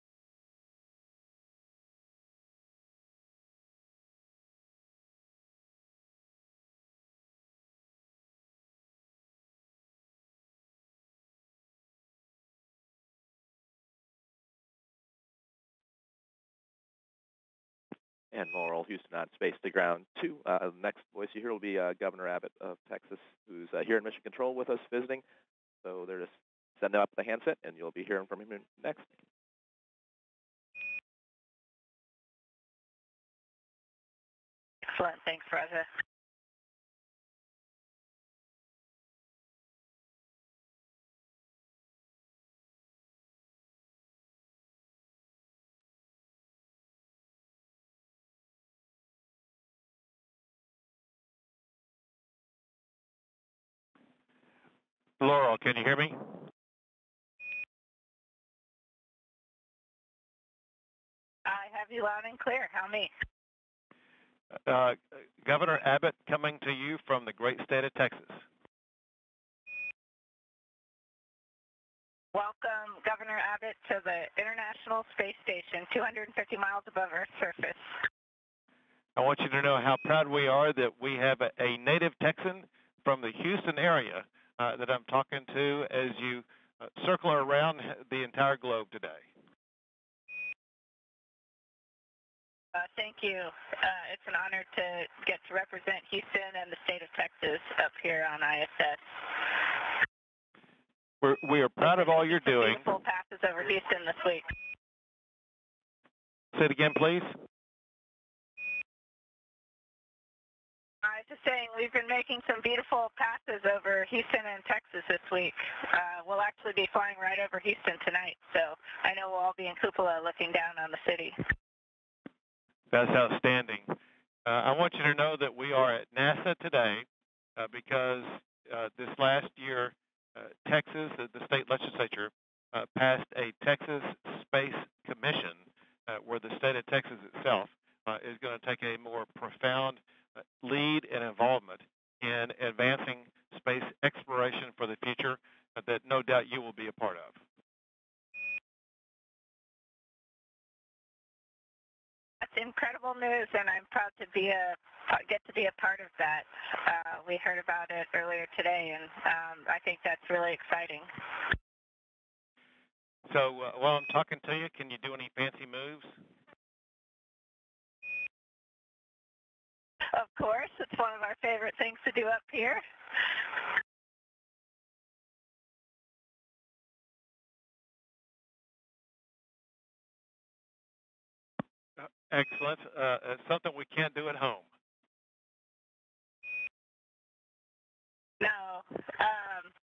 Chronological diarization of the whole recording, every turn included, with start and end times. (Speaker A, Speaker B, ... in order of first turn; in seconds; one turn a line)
Speaker A: 18.3-25.2
Speaker A: 25.8-29.1
Speaker B: 34.9-35.9
Speaker C: 55.2-56.3
Speaker B: 61.5-63.1
Speaker C: 64.7-68.4
Speaker B: 72.3-77.9
Speaker C: 79.2-89.2
Speaker B: 92.7-99.9
Speaker C: 101.2-102.9
Speaker B: 101.8-104.4
Speaker C: 106.5-107.3
Speaker B: 111.0-121.3
Speaker C: 122.9-127.0
Speaker C: 127.6-140.0
Speaker C: 140.6-147.4
Speaker B: 152.4-161.1
Speaker C: 163.3-166.1
Speaker B: 170.1-173.5
Speaker C: 182.0-184.7
Speaker B: 188.4-189.7